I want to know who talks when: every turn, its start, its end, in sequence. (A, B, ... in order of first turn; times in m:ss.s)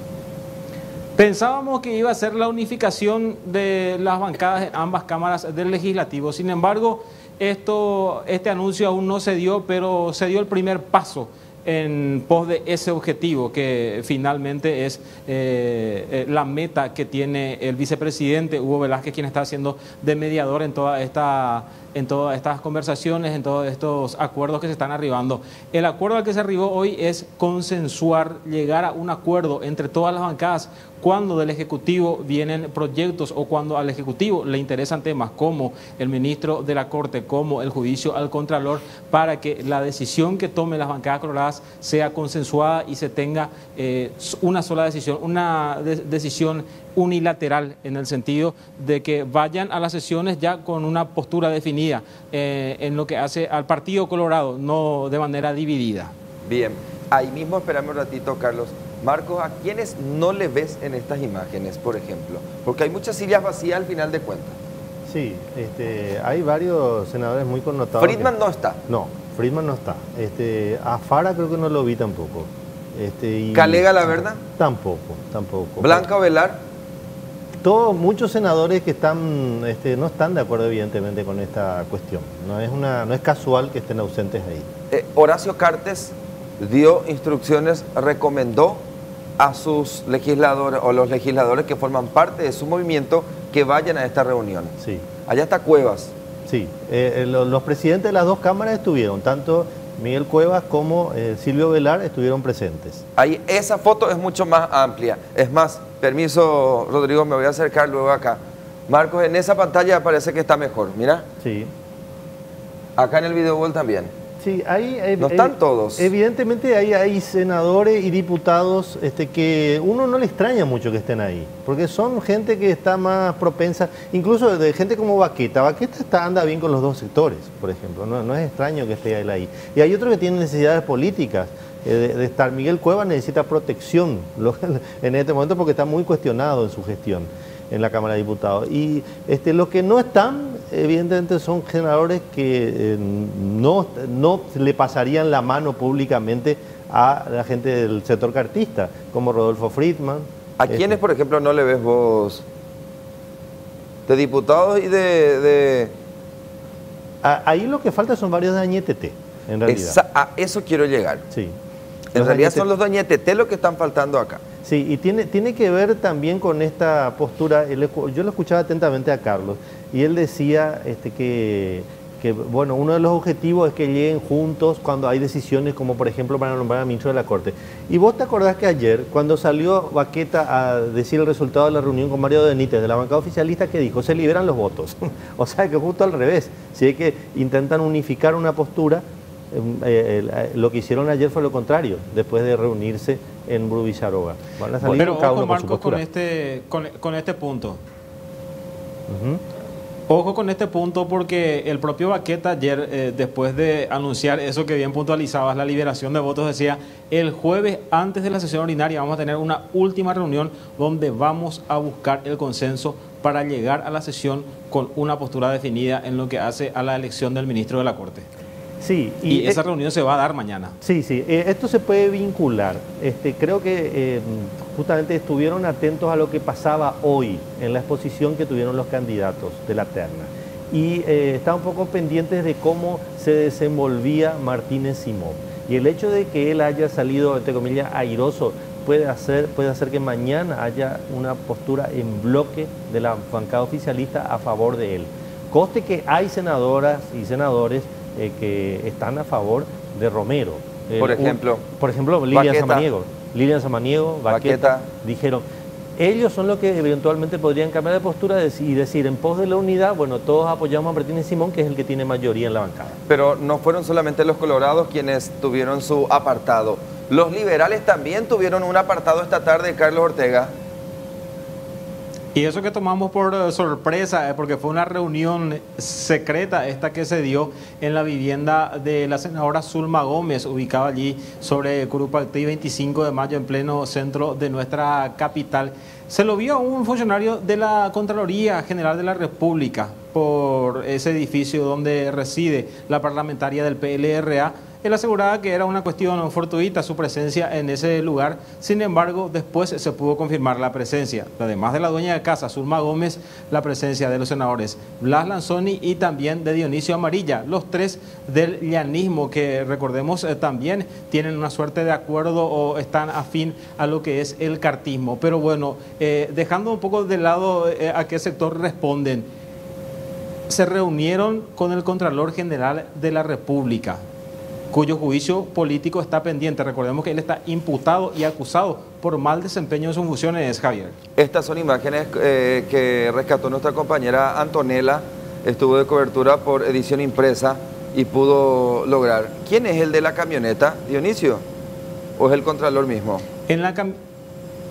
0:01.2-0:56.1 A
0:56.4-1:04.6 B
1:05.0-1:08.3 C
1:08.0-1:08.8 B
1:08.9-1:16.1 C
1:13.5-1:14.4 B
1:15.8-1:16.6 B
1:17.6-1:24.7 C
1:24.9-1:28.8 B
1:29.4-1:34.7 B
1:34.8-1:35.0 C
1:35.3-1:36.1 B
1:36.4-1:43.0 C
1:43.2-1:51.2 B
1:51.4-1:51.7 C
1:53.0-1:54.1 B
1:54.4-2:31.0 C
1:55.2-1:56.1 B
2:30.6-2:32.4 B
2:34.1-2:35.9 B
2:37.2-2:40.0 C
2:39.6-2:41.2 B
2:41.3-2:41.6 C
2:42.1-2:42.7 C
2:42.1-2:44.4 B
2:44.6-3:16.0 C
3:14.8-3:17.8 A
3:19.1-3:19.4 C
3:20.1-3:38.3 A
3:38.8-3:39.6 C
3:39.3-3:40.8 A
3:40.8-4:15.4 C
4:11.0-4:11.6 B
4:12.3-4:12.9 B
4:14.3-4:14.9 B
4:16.0-4:23.0 C
4:23.1-4:30.5 B
4:32.3-5:19.3 A
5:20.5-5:24.0 A
5:24.7-5:31.0 A
5:31.2-5:41.4 B
5:42.2-5:43.2 B
5:43.5-5:44.0 A